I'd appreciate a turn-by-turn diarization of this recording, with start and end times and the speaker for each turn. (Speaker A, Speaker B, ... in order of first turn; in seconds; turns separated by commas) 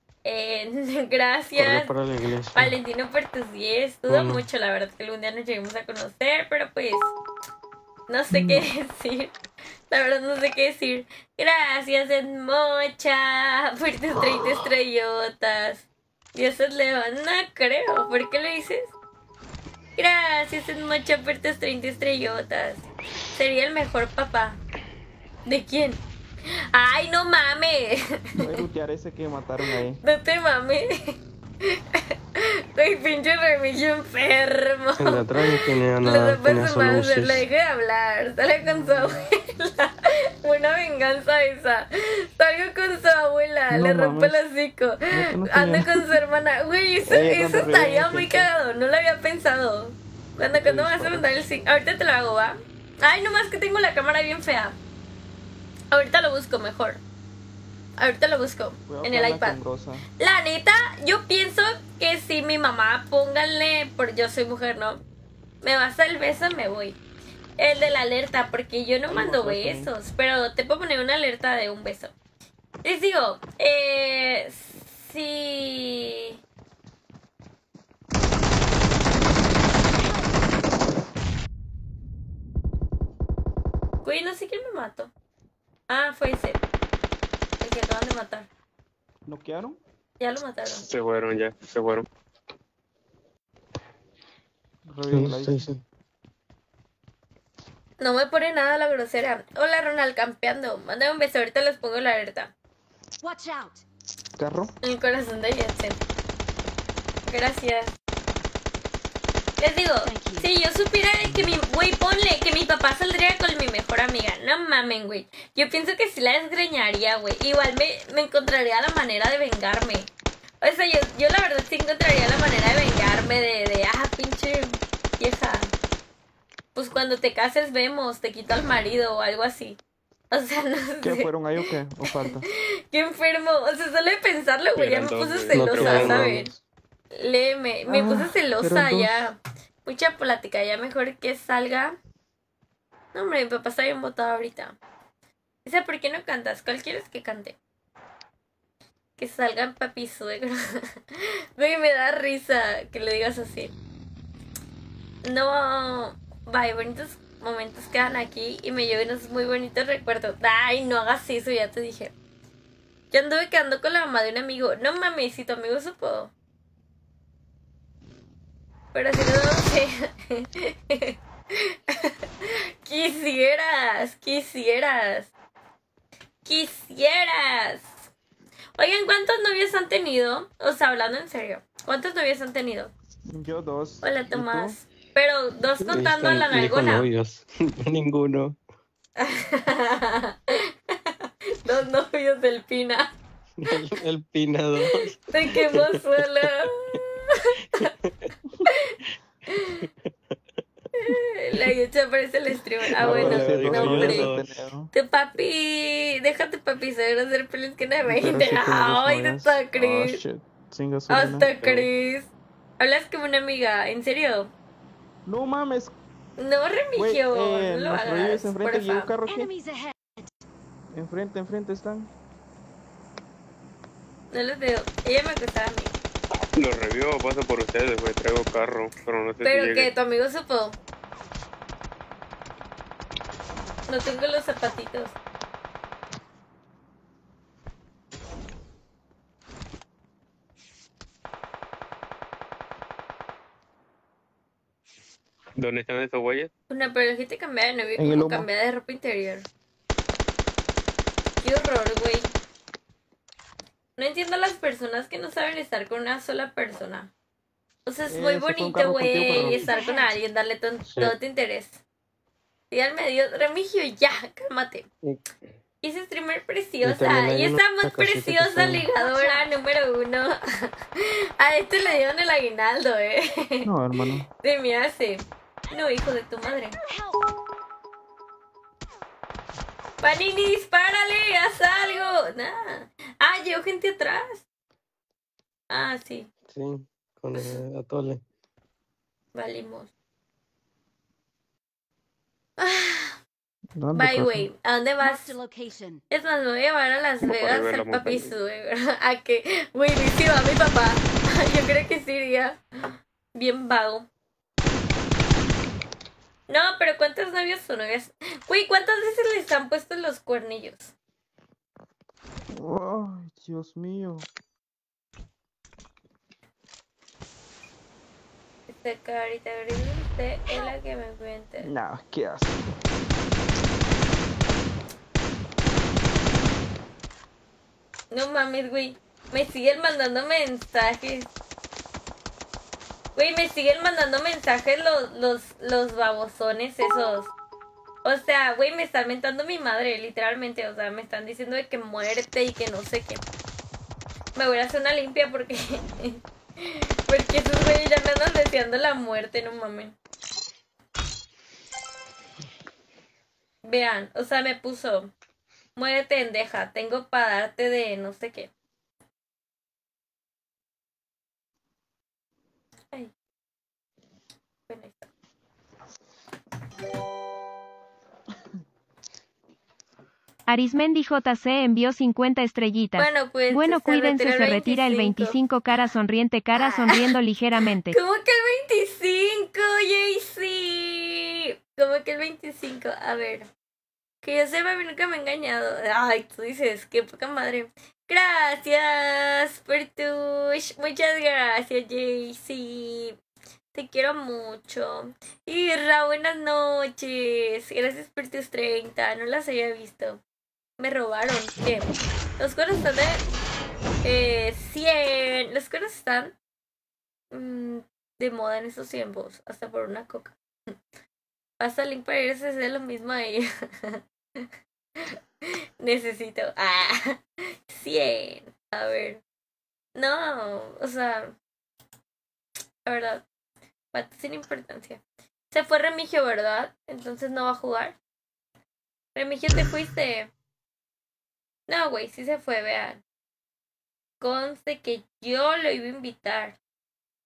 Speaker A: 0.2-1.9, Speaker B: 1.6-2.7, Speaker A: 2.5-7.1, Speaker B: 4.1-4.4, Speaker A: 8.1-9.3, Speaker C: 8.3-8.6, Speaker A: 9.9-18.9, Speaker A: 20.0-24.6, Speaker A: 25.4-28.4, Speaker C: 28.4-30.0, Speaker A: 30.0-54.8, Speaker B: 35.0-37.4, Speaker C: 43.7-44.4, Speaker C: 45.1-46.1, Speaker C: 47.1-48.5, Speaker C: 50.4-51.3, Speaker A: 55.9-57.0, Speaker A: 58.0-59.6, Speaker C: 58.8-60.0, Speaker A: 60.2-65.0, Speaker A: 65.6-67.0, Speaker A: 67.6-72.1, Speaker C: 69.1-69.9, Speaker A: 72.8-76.4, Speaker A: 84.0-85.1, Speaker A: 85.9-86.6, Speaker A: 87.6-88.5, Speaker C: 89.3-89.8, Speaker A: 90.2-90.8, Speaker D: 90.7-92.0, Speaker C: 94.9-95.8, Speaker B: 95.1-95.8, Speaker A: 98.0-102.5, Speaker E: 103.2-103.8, Speaker C: 104.4-104.7, Speaker A: 104.8-106.0, Speaker A: 107.3-107.9, Speaker A: 109.6-120.1, Speaker E: 110.0-110.5, Speaker C: 111.2-111.5, Speaker A: 120.6-125.7, Speaker A: 126.7-129.8, Speaker A: 130.3-131.3, Speaker C: 131.0-132.5, Speaker A: 132.5-136.5, Speaker D: 134.7-136.5, Speaker B: 135.5-136.5, Speaker C: 136.0-136.3, Speaker A: 137.1-141.9, Speaker C: 137.9-139.3, Speaker A: 143.1-144.8, Speaker A: 145.6-147.6, Speaker A: 149.2-153.7, Speaker A: 155.2-162.1, Speaker A: 163.1-166.3, Speaker A: 168.9-175.3, Speaker A: 176.4-177.9, Speaker A: 178.8-182.9, Speaker C: 183.3-184.8, Speaker A: 184.0-187.1, Speaker B: 185.8-188.6, Speaker A: 189.2-193.1, Speaker B: 193.6-196.7, Speaker A: 195.3-197.8, Speaker B: 197.7-198.6, Speaker A: 199.5-199.8, Speaker B: 199.8-200.3, Speaker A: 201.0-204.3, Speaker B: 202.8-204.3, Speaker C: 203.0-204.9, Speaker D: 203.1-204.5, Speaker A: 204.9-210.2, Speaker C: 208.1-211.5, Speaker A: 211.1-214.5, Speaker D: 211.6-211.9, Speaker C: 215.2-215.9, Speaker A: 216.4-219.1, Speaker C: 216.9-219.5, Speaker E: 219.2-220.3, Speaker C: 220.9-222.1, Speaker A: 224.3-225.9, Speaker D: 226.6-229.9, Speaker A: 229.4-230.8, Speaker A: 233.9-235.1, Speaker D: 245.6-246.5, Speaker A: 246.7-249.5, Speaker C: 248.0-248.5, Speaker A: 251.4-252.3, Speaker A: 254.0-257.1, Speaker A: 257.9-261.8, Speaker C: 258.1-259.7, Speaker E: 259.4-260.2, Speaker B: 260.9-261.1, Speaker A: 262.7-264.9, Speaker B: 265.0-265.3, Speaker A: 265.8-273.7, Speaker B: 266.8-268.9, Speaker E: 268.9-269.5, Speaker C: 273.6-274.3, Speaker A: 274.4-276.8, Speaker A: 280.0-284.4, Speaker A: 285.7-286.3, Speaker B: 286.5-288.2, Speaker A: 287.3-287.6, Speaker A: 289.3-289.9, Speaker A: 292.6-293.2, Speaker C: 293.8-294.5, Speaker A: 293.9-295.3, Speaker E: 295.0-296.0, Speaker A: 296.1-304.1, Speaker D: 297.2-298.3, Speaker A: 306.5-310.9, Speaker C: 312.5-314.3, Speaker A: 318.7-321.7, Speaker C: 321.6-322.8, Speaker A: 328.1-331.3, Speaker A: 333.1-337.3, Speaker A: 338.0-343.2, Speaker A: 344.3-349.9, Speaker A: 353.6-355.1, Speaker A: 355.8-358.5, Speaker A: 364.7-365.1, Speaker F: 370.5-378.0, Speaker A: 373.0-375.4, Speaker A: 376.5-377.1, Speaker A: 377.9-383.5, Speaker A: 384.2-393.1, Speaker A: 393.7-400.2, Speaker A: 400.8-401.9, Speaker A: 402.4-403.3, Speaker A: 404.0-406.3, Speaker A: 407.3-410.8, Speaker A: 411.6-414.5, Speaker A: 415.0-419.2, Speaker A: 419.9-421.3, Speaker A: 422.8-423.2, Speaker A: 423.9-427.9, Speaker A: 429.1-430.3, Speaker A: 431.7-433.0, Speaker A: 434.2-436.6